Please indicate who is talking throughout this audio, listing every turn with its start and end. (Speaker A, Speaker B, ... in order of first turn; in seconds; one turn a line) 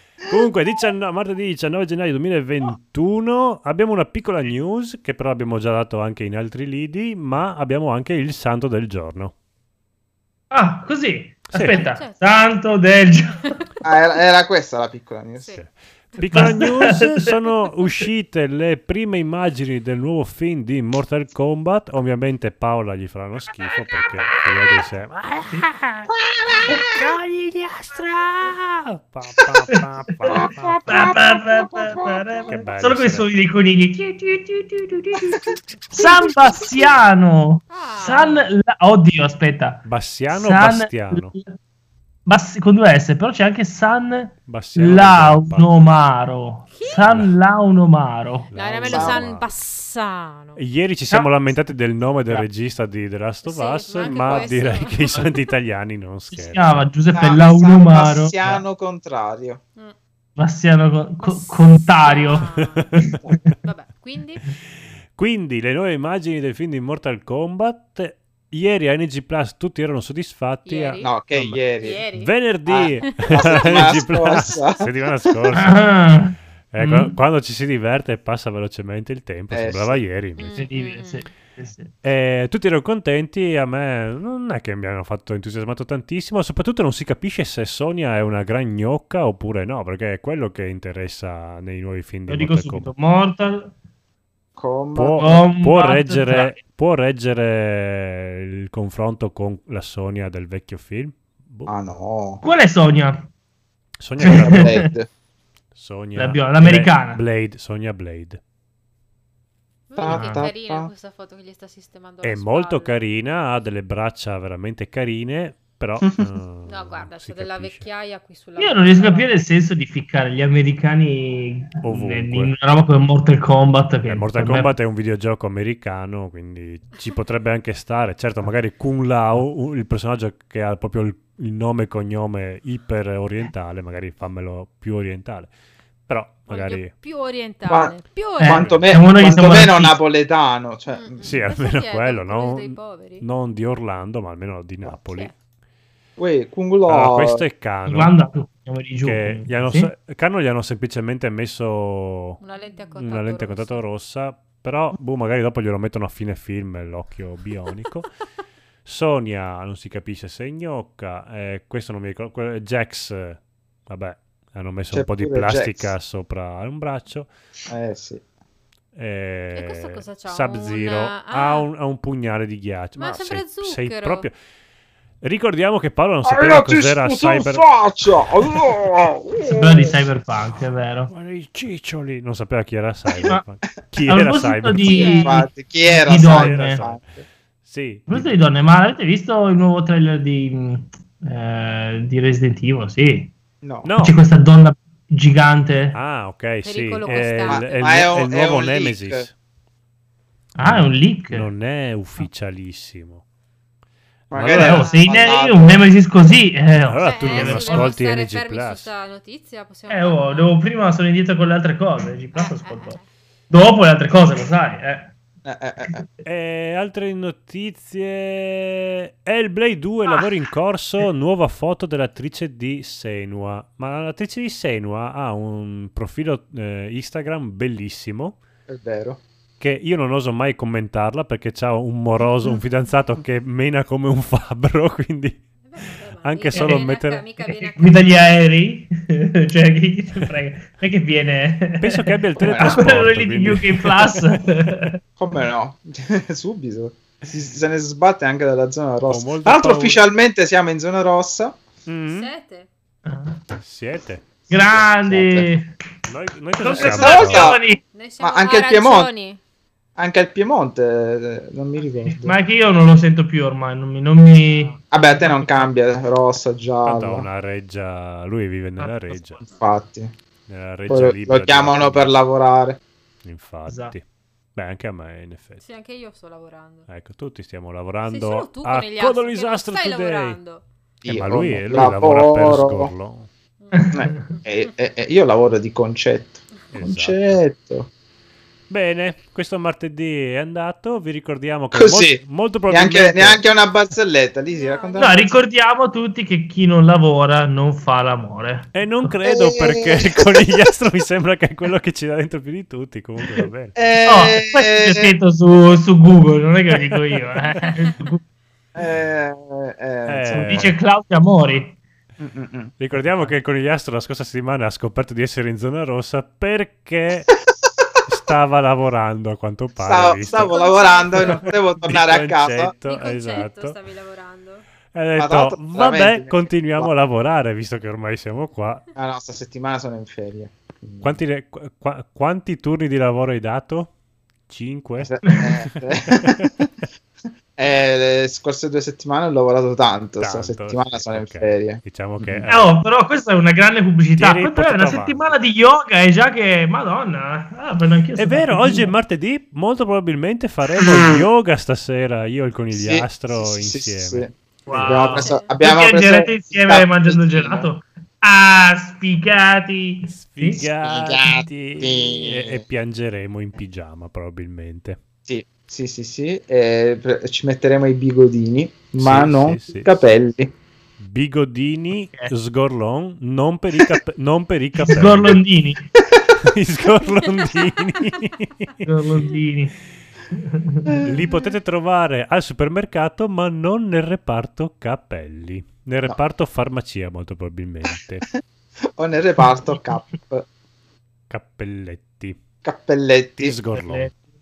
Speaker A: 0.3-9.3
Speaker B: 10.5-13.4
Speaker A: 11.5-11.8
Speaker C: 11.7-12.4
Speaker D: 13.8-15.5
Speaker C: 15.4-15.6
Speaker A: 15.6-26.1
Speaker C: 16.1-16.5
Speaker B: 16.3-17.3
Speaker D: 26.1-27.0
Speaker A: 26.9-31.1
Speaker B: 29.7-41.5
Speaker D: 30.3-32.2
Speaker A: 32.4-33.3
Speaker D: 35.2-35.5
Speaker C: 37.7-38.5
Speaker A: 39.8-41.3
Speaker B: 42.2-48.5
Speaker A: 44.5-45.7
Speaker C: 46.7-47.1
Speaker A: 47.1-47.3
Speaker A: 48.5-49.5
Speaker C: 48.5-50.6
Speaker D: 48.9-49.3
Speaker A: 50.5-56.8
Speaker B: 51.1-51.4
Speaker C: 53.4-55.4
Speaker B: 54.0-54.4
Speaker B: 56.3-58.6
Speaker D: 57.1-59.6
Speaker B: 60.4-62.4
Speaker C: 61.2-62.9
Speaker A: 62.3-63.1
Speaker B: 63.0-63.5
Speaker C: 63.6-64.4
Speaker A: 65.1-71.6
Speaker C: 70.7-71.1
Speaker D: 71.0-72.0
Speaker C: 71.8-72.3
Speaker A: 72.1-75.9
Speaker D: 72.7-74.9
Speaker B: 75.5-77.1
Speaker A: 76.7-80.7
Speaker D: 79.5-80.0
Speaker C: 80.4-81.2
Speaker B: 80.6-81.9
Speaker A: 82.0-92.9
Speaker B: 92.3-93.7
Speaker D: 94.5-95.3
Speaker A: 94.9-101.8
Speaker B: 95.2-96.6
Speaker D: 101.7-102.4
Speaker B: 102.4-103.3
Speaker A: 104.0-104.9
Speaker B: 104.2-104.8
Speaker D: 104.4-105.1
Speaker A: 105.7-108.4
Speaker B: 106.2-107.2
Speaker C: 109.9-113.0
Speaker D: 110.0-110.9
Speaker B: 110.1-110.5
Speaker A: 112.2-117.8
Speaker C: 116.7-119.4
Speaker B: 118.6-124.7
Speaker A: 121.8-122.5
Speaker A: 124.1-135.5
Speaker A: 136.1-136.9
Speaker C: 136.5-138.8
Speaker D: 137.7-141.4
Speaker B: 138.4-140.0
Speaker C: 140.9-143.2
Speaker A: 141.2-145.3
Speaker C: 145.1-145.3
Speaker D: 146.2-147.4
Speaker A: 146.9-148.1
Speaker B: 147.8-149.9
Speaker A: 149.0-152.4
Speaker C: 152.4-153.8
Speaker A: 152.9-158.1
Speaker A: 158.8-167.3
Speaker D: 164.9-165.9
Speaker D: 167.7-168.2
Speaker A: 168.9-174.3
Speaker C: 169.5-171.7
Speaker C: 173.0-174.3
Speaker A: 175.2-178.8
Speaker D: 176.2-180.0
Speaker B: 179.5-181.1
Speaker A: 181.1-185.1
Speaker B: 184.1-186.8
Speaker C: 184.8-185.4
Speaker D: 185.1-187.2
Speaker A: 186.2-187.0
Speaker A: 187.6-188.3
Speaker B: 188.1-193.3
Speaker D: 193.6-193.9
Speaker A: 193.8-194.2
Speaker B: 194.0-195.9
Speaker A: 195.9-199.3
Speaker C: 196.6-197.8
Speaker D: 197.4-199.3
Speaker B: 200.6-201.5
Speaker A: 200.6-203.2
Speaker D: 204.3-205.8
Speaker A: 204.3-204.9
Speaker B: 204.5-207.9
Speaker C: 204.6-205.1
Speaker A: 206.9-208.9
Speaker C: 207.1-210.6
Speaker B: 209.9-213.0
Speaker C: 212.3-213.1
Speaker B: 213.5-215.1
Speaker D: 215.4-216.0
Speaker A: 216.2-228.4
Speaker D: 228.7-229.2
Speaker A: 229.6-235.4
Speaker C: 235.6-238.1
Speaker A: 236.2-237.2
Speaker B: 236.5-236.8
Speaker B: 237.4-245.0
Speaker A: 241.8-244.2
Speaker D: 242.4-242.9
Speaker D: 245.2-251.6
Speaker A: 249.1-250.0
Speaker A: 251.9-252.3
Speaker C: 252.1-252.7
Speaker B: 253.1-253.4
Speaker A: 253.6-254.9
Speaker B: 254.5-255.7
Speaker D: 254.7-255.5
Speaker A: 256.1-257.5
Speaker B: 256.6-257.8
Speaker D: 256.7-257.6
Speaker C: 257.9-259.4
Speaker D: 258.2-259.1
Speaker D: 260.0-262.4
Speaker B: 262.0-265.7
Speaker D: 264.9-267.3
Speaker A: 266.8-269.4
Speaker B: 268.8-269.6
Speaker D: 269.6-270.1
Speaker A: 270.5-272.1
Speaker D: 270.9-272.8
Speaker A: 273.2-274.0
Speaker B: 273.7-273.9
Speaker A: 274.6-275.6
Speaker C: 275.6-276.9
Speaker A: 276.9-280.4
Speaker C: 278.0-280.6
Speaker D: 281.0-282.9
Speaker A: 281.1-283.3
Speaker C: 283.6-284.5
Speaker B: 283.7-284.1
Speaker D: 283.9-287.9
Speaker A: 286.7-287.4
Speaker A: 288.7-293.4
Speaker D: 291.7-295.4
Speaker C: 294.4-295.2
Speaker B: 294.9-298.7
Speaker A: 298.7-303.8
Speaker D: 299.2-300.4
Speaker D: 303.8-305.1
Speaker B: 304.1-308.2
Speaker D: 308.7-310.7
Speaker A: 310.1-310.7
Speaker B: 310.3-311.8
Speaker D: 312.2-312.7
Speaker A: 312.8-317.3
Speaker A: 318.1-320.5
Speaker D: 319.8-322.7
Speaker C: 320.3-321.5
Speaker A: 321.1-323.8
Speaker C: 322.8-324.6
Speaker A: 324.9-328.8
Speaker D: 325.1-326.9
Speaker D: 328.9-331.2
Speaker A: 331.0-333.9
Speaker A: 334.5-336.4
Speaker D: 335.0-336.7
Speaker D: 337.5-342.4
Speaker A: 340.2-342.8
Speaker B: 342.5-348.9
Speaker A: 344.1-345.3
Speaker A: 348.1-355.2
Speaker D: 350.9-351.2
Speaker D: 352.7-357.7
Speaker B: 354.7-360.7
Speaker C: 355.1-355.6
Speaker A: 360.1-365.0
Speaker D: 360.8-362.6
Speaker D: 365.2-370.5
Speaker A: 369.0-370.0
Speaker A: 371.0-375.4
Speaker B: 374.8-375.9
Speaker A: 376.4-378.7
Speaker C: 377.0-378.2
Speaker B: 378.8-379.7
Speaker B: 380.3-381.0
Speaker D: 380.9-381.5
Speaker A: 381.1-388.2
Speaker D: 388.9-390.4
Speaker B: 389.4-389.7
Speaker A: 391.3-392.4
Speaker D: 392.6-393.6
Speaker A: 393.4-394.1
Speaker B: 393.7-394.1